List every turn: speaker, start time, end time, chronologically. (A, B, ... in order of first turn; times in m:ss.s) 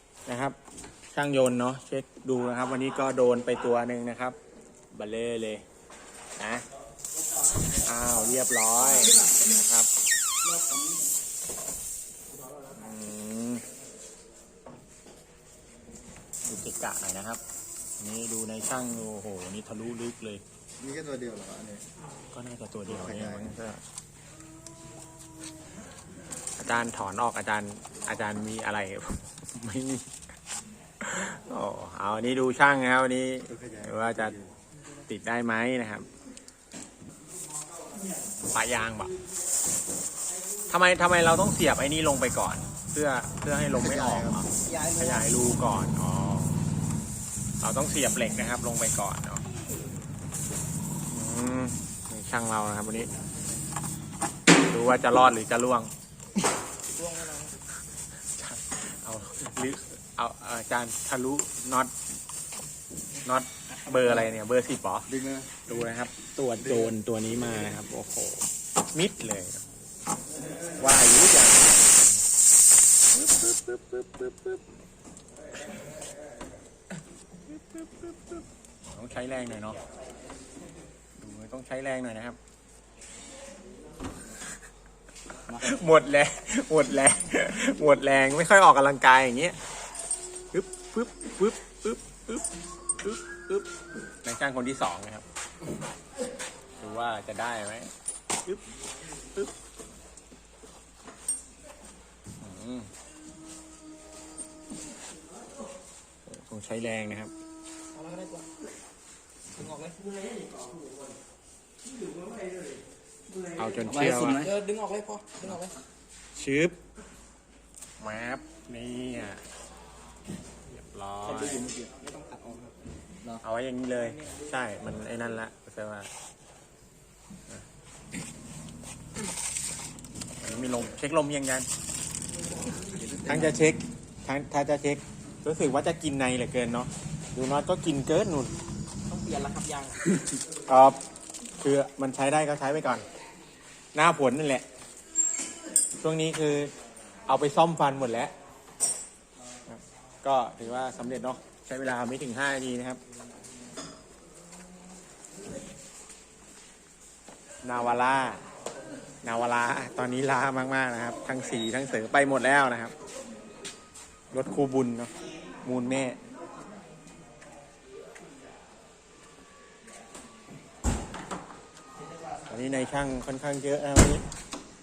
0:00.3-0:00.6 A
0:01.1-0:04.4 A
0:04.9-0:05.6 A
0:06.4-0:06.6 A
0:07.7-0:09.9 A
0:09.0-0:09.4 B
0:10.4-0:11.1 B
0:12.7-0:13.6 A
0:16.5-0:17.4 A
0:18.0-0:20.4 A
0:20.8-0:21.8 C
0:22.3-0:23.8 A
0:22.9-0:23.5 C
0:26.6-0:30.2 A
0:31.0-0:34.4 A
0:33.5-0:34.5 C
0:35.1-0:36.0 A
0:38.5-0:39.1 A
0:40.7-0:46.6 A
0:43.8-0:44.4 C
0:44.6-0:45.4 B
0:47.6-0:49.4 A
0:51.1-0:53.1 A
0:54.7-0:55.9 A
0:56.9-0:57.6 B
0:58.4-1:01.9 A
1:03.2-1:05.1 A
1:05.1-1:05.5 C
1:05.7-1:09.6 A
1:10.8-1:12.2 A
1:13.1-1:14.6 A
1:17.5-1:19.8 A
1:21.2-1:22.4 A
1:25.5-1:29.6 A
1:30.5-1:32.4 A
1:33.0-1:33.7 A
1:34.2-1:35.2 A
1:36.8-1:37.9 A
1:42.4-1:42.9 A
1:46.3-1:47.3 A
1:47.9-1:48.5 B
1:49.6-1:50.2 B
1:53.5-1:54.5 A
1:53.8-1:55.7 B
1:56.4-1:56.8 A
1:58.0-1:59.4 A
2:00.7-2:01.7 A
2:01.3-2:02.7 B
2:03.4-2:06.1 A
2:10.4-2:11.7 A
2:13.0-2:13.7 C
2:13.2-2:18.5 A
2:19.1-2:20.0 B
2:20.2-2:21.0 A
2:21.6-2:23.1 A
2:23.9-2:24.6 A
2:26.0-2:26.7 A
2:27.3-2:28.3 A
2:29.7-2:33.0 A
2:37.6-2:38.4 A
2:39.2-2:42.9 A
2:44.3-2:45.1 A
2:45.6-2:46.2 A
2:52.5-2:54.2 A